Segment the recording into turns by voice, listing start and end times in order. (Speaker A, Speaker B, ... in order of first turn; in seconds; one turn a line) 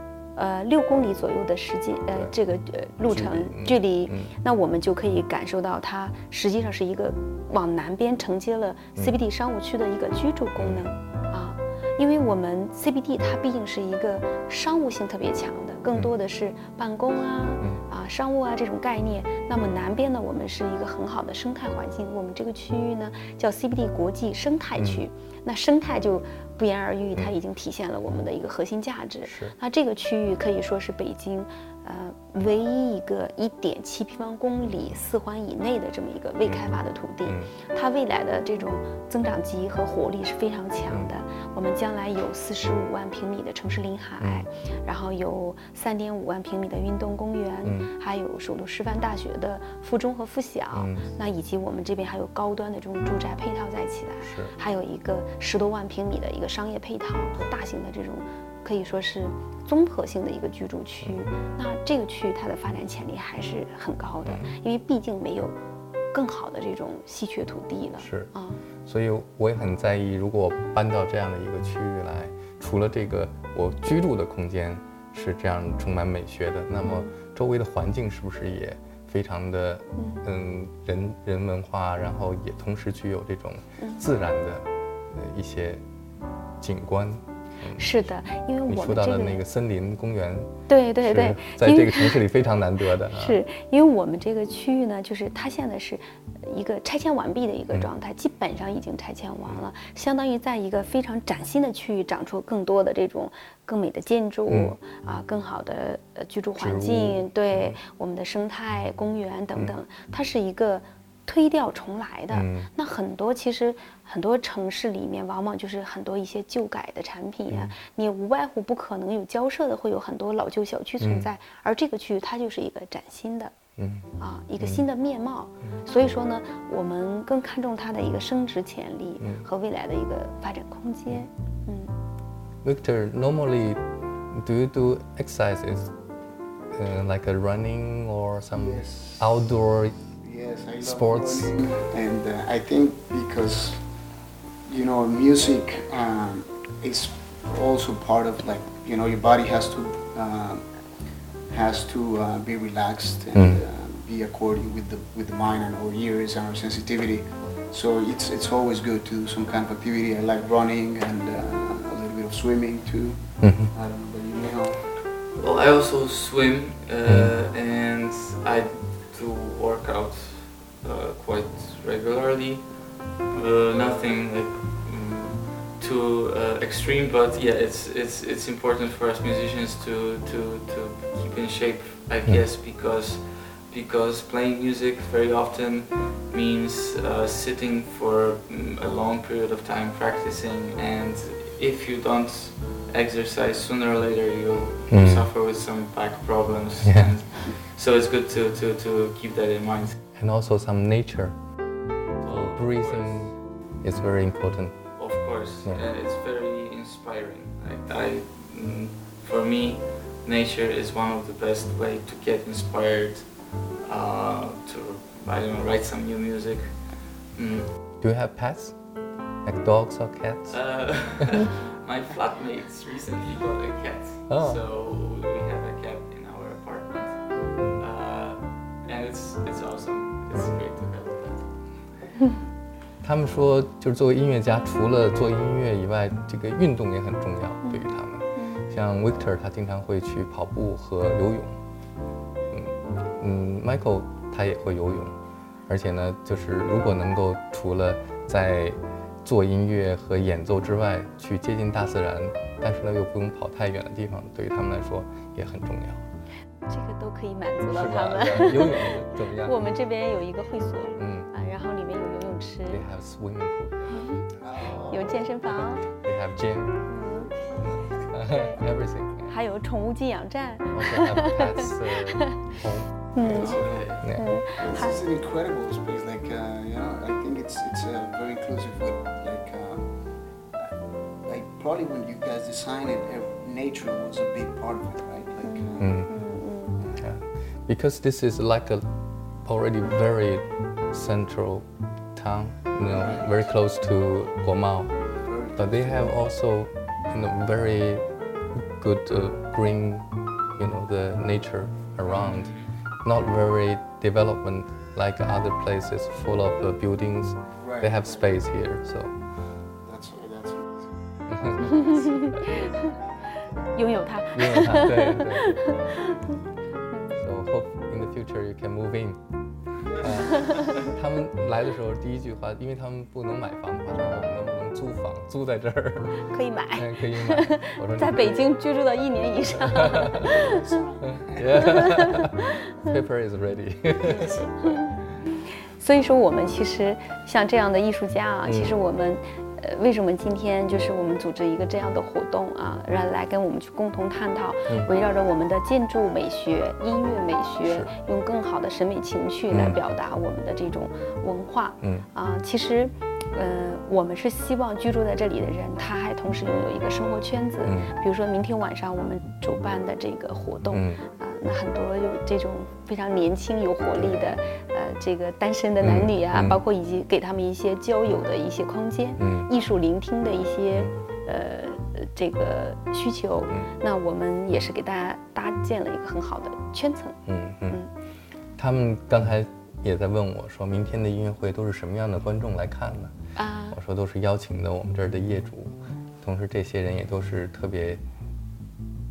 Speaker A: 0.3-65.5
Speaker B: 3.0-4.3
Speaker B: 10.6-10.8
Speaker B: 24.8-25.0
Speaker B: 29.2-29.5
Speaker B: 37.2-37.5
Speaker B: 44.2-44.5
Speaker B: 47.6-47.9
Speaker B: 50.7-51.1
Speaker B: 54.2-54.5
Speaker B: 61.0-61.3
Speaker B: 64.2-64.5
Speaker A: 66.1-68.6
Speaker B: 68.0-68.3
Speaker B: 68.8-85.8
Speaker A: 76.8-77.1
Speaker A: 80.0-80.2
Speaker A: 83.8-84.0
Speaker B: 86.6-87.9
Speaker A: 87.8-89.4
Speaker B: 88.7-93.4
Speaker A: 90.7-92.2
Speaker A: 93.1-123.5
Speaker B: 104.5-104.8
Speaker B: 106.6-107.8
Speaker B: 112.3-112.7
Speaker B: 117.5-117.7
Speaker B: 121.0-121.3
Speaker B: 123.8-124.1
Speaker A: 124.2-131.9
Speaker B: 129.2-129.5
Speaker B: 132.6-135.9
Speaker B: 136.7-140.0
Speaker C: 138.5-139.6
Speaker C: 140.1-143.8
Speaker B: 140.8-141.5
Speaker C: 144.7-150.6
Speaker C: 151.5-164.8
Speaker B: 153.3-153.6
Speaker B: 163.4-163.7
Speaker D: 165.3-200.0
Speaker B: 167.1-167.3
Speaker B: 194.9-195.3
Speaker B: 196.8-197.1
Speaker B: 200.1-201.3
Speaker D: 202.2-203.3
Speaker B: 202.2-204.8
Speaker D: 205.0-217.7
Speaker B: 218.0-218.8
Speaker B: 219.4-220.6
Speaker D: 220.5-231.6
Speaker B: 224.3-224.6
Speaker B: 233.0-241.6
Speaker A: 237.6-238.7
Speaker B: 242.5-245.2
Speaker B: 245.7-256.0
Speaker A: 256.7-262.8
Speaker B: 257.7-259.6
Speaker B: 261.0-261.3
Speaker B: 262.7-263.9
Speaker A: 263.9-264.2
Speaker C: 264.4-265.3
Speaker A: 264.9-265.8
Speaker B: 265.9-266.8
Speaker A: 266.9-267.3
Speaker C: 267.4-267.9
Speaker B: 267.9-269.4
Speaker A: 268.2-268.6
Speaker A: 269.2-272.5
Speaker B: 270.7-273.4
Speaker A: 273.1-275.0
Speaker C: 273.2-286.0
Speaker D: 273.2-274.1
Speaker B: 274.0-274.3
Speaker A: 285.4-286.8
Speaker B: 285.8-286.1
Speaker C: 286.8-287.1
Speaker B: 287.0-288.9
Speaker B: 289.4-309.1
Speaker C: 293.0-293.3
Speaker C: 295.2-296.2
Speaker D: 302.1-302.7
Speaker C: 307.6-308.4
Speaker C: 309.8-312.6
Speaker B: 311.3-312.0
Speaker A: 311.7-312.9
Speaker A: 313.7-316.3
Speaker B: 314.3-315.8
Speaker A: 316.9-317.2
Speaker B: 317.2-319.2
Speaker C: 319.8-320.9
Speaker B: 320.0-326.2
Speaker A: 326.3-330.7
Speaker B: 326.7-328.5
Speaker B: 329.4-330.2
Speaker C: 330.1-332.2
Speaker B: 331.1-334.7
Speaker A: 331.5-332.9
Speaker C: 334.0-334.4
Speaker A: 334.6-377.9
Speaker B: 338.4-338.8
Speaker B: 347.6-347.9
Speaker B: 349.5-349.8
Speaker B: 357.6-357.9
Speaker B: 360.7-361.0
Speaker B: 364.0-364.2
Speaker B: 365.8-366.6
Speaker B: 369.2-369.5
Speaker B: 377.3-377.8
Speaker B: 378.6-383.1
Speaker A: 383.4-383.8
Speaker B: 383.7-388.0